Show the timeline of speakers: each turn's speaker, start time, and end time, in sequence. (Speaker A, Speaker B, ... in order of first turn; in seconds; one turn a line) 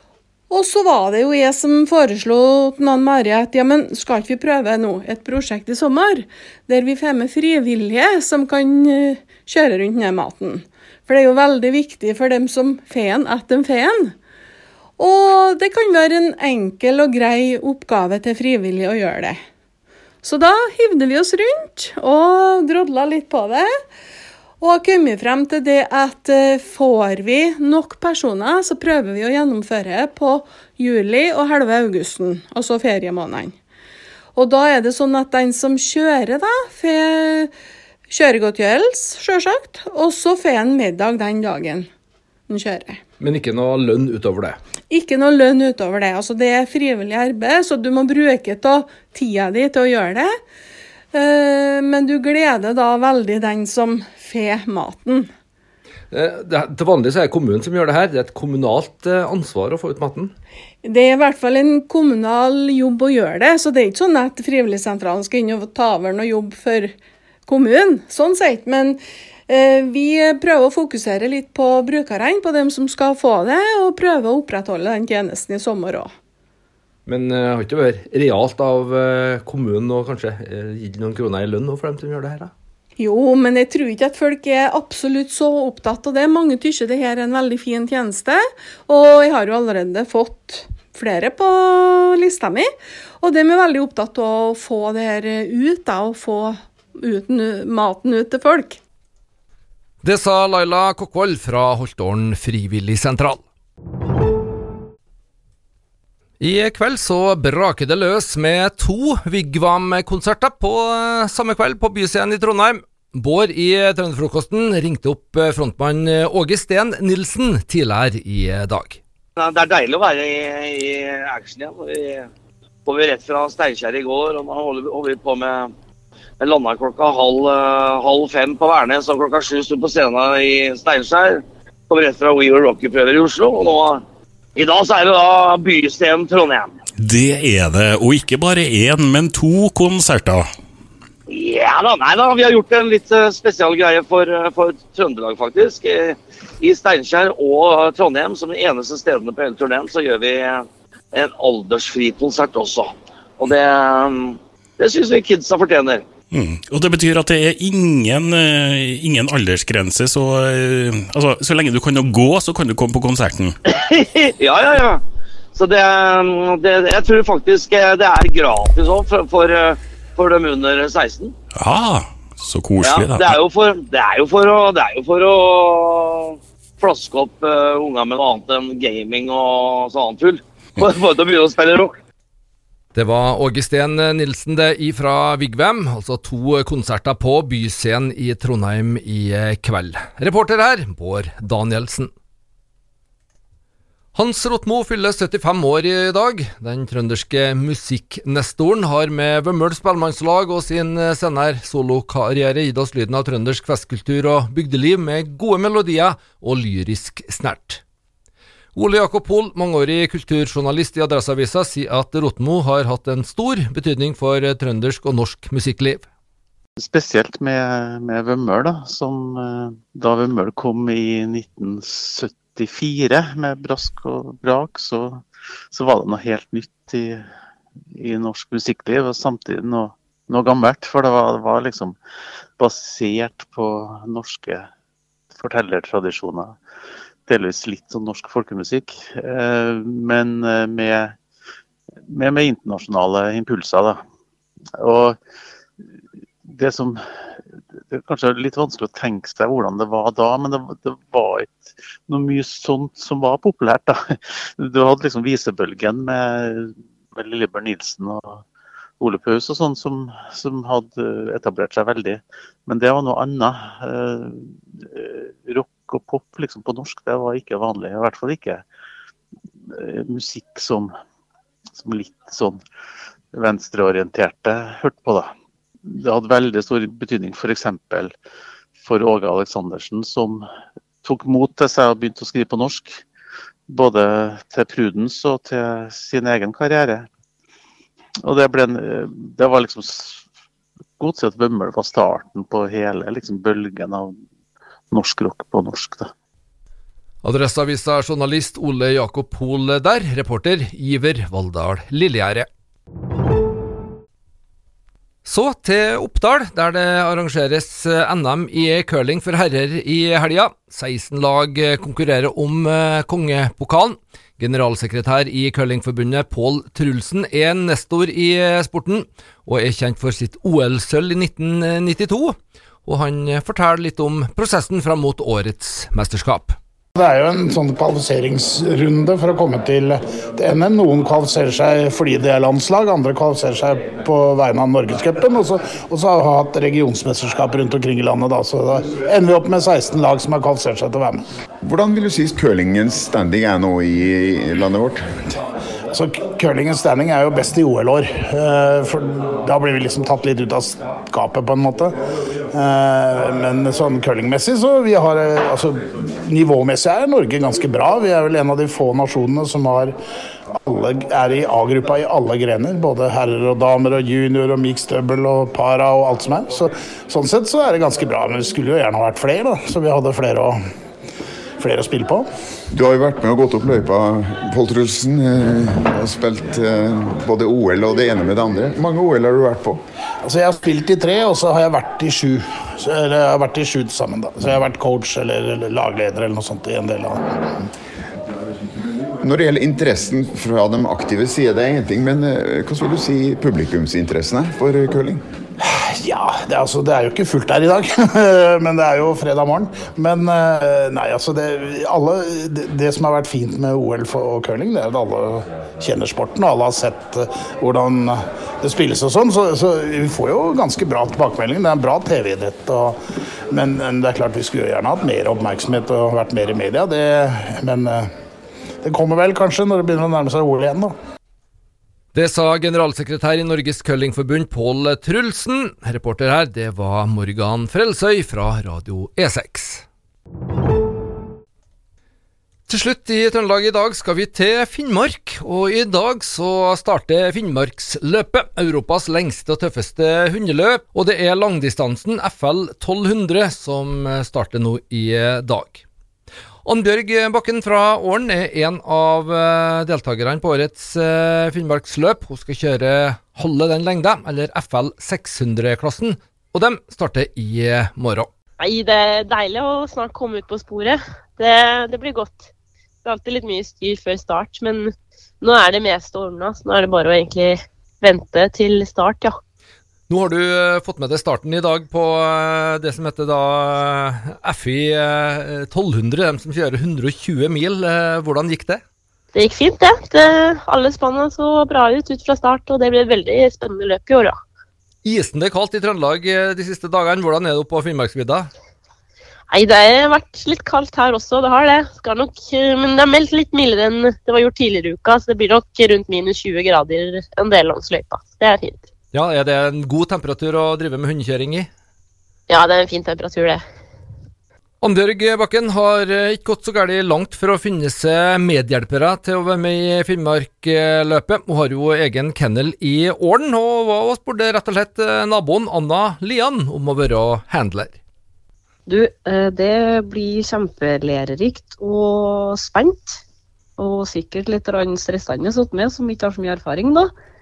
Speaker A: 0.5-14.2
Speaker A: 15.0-19.4
Speaker A: 20.2-23.7
Speaker A: 24.6-33.5
Speaker A: 34.4-37.5
Speaker A: 38.1-41.9
Speaker A: 42.5-43.0
Speaker B: 43.2-44.6
Speaker A: 44.9-50.3
Speaker A: 51.1-55.3
Speaker B: 56.1-60.3
Speaker A: 60.8-67.0
Speaker A: 67.5-76.1
Speaker B: 77.1-82.5
Speaker A: 83.0-92.7
Speaker A: 93.2-98.8
Speaker B: 100.0-103.4
Speaker B: 106.4-119.0
Speaker C: 119.4-122.3
Speaker C: 122.9-125.7
Speaker C: 126.4-134.0
Speaker C: 134.6-136.7
Speaker D: 137.0-140.5
Speaker C: 141.4-150.6
Speaker C: 151.1-152.9
Speaker C: 153.4-156.0
Speaker D: 156.3-163.6
Speaker C: 163.7-165.0
Speaker C: 165.6-171.3
Speaker D: 171.6-173.4
Speaker C: 172.8-176.0
Speaker C: 176.8-181.9
Speaker B: 182.9-192.1
Speaker B: 194.2-207.8
Speaker B: 208.8-216.1
Speaker E: 216.8-227.3
Speaker E: 227.9-232.0
Speaker E: 232.6-234.7
Speaker E: 235.3-236.6
Speaker E: 237.3-241.2
Speaker E: 242.1-244.0
Speaker E: 244.8-245.2
Speaker E: 246.5-247.0
Speaker E: 247.9-258.4
Speaker E: 259.0-268.7
Speaker E: 269.7-270.9
Speaker E: 271.8-272.6
Speaker E: 273.3-275.3
Speaker E: 275.9-278.1
Speaker E: 278.8-280.5
Speaker E: 281.0-283.0
Speaker E: 283.7-287.1
Speaker E: 288.2-290.2
Speaker E: 291.0-294.2
Speaker E: 294.9-296.1
Speaker B: 297.2-302.5
Speaker B: 305.2-326.6
Speaker F: 326.9-341.2
Speaker G: 341.6-345.1
Speaker F: 345.9-351.9
Speaker F: 352.5-360.0
Speaker F: 360.6-370.6
Speaker F: 371.6-372.3
Speaker G: 372.7-379.8
Speaker F: 380.2-387.4
Speaker G: 389.2-395.2
Speaker F: 395.6-413.0
Speaker F: 413.5-418.1
Speaker F: 418.8-420.9
Speaker B: 422.1-429.9
Speaker B: 432.7-445.8
Speaker B: 446.6-458.3
Speaker H: 458.6-462.5
Speaker H: 463.0-469.4
Speaker B: 470.1-478.8
Speaker H: 479.3-484.4
Speaker B: 485.0-488.5
Speaker H: 489.5-498.8
Speaker B: 499.1-501.7
Speaker H: 502.5-503.6
Speaker B: 504.8-518.0
Speaker I: 518.9-523.2
Speaker I: 523.8-527.1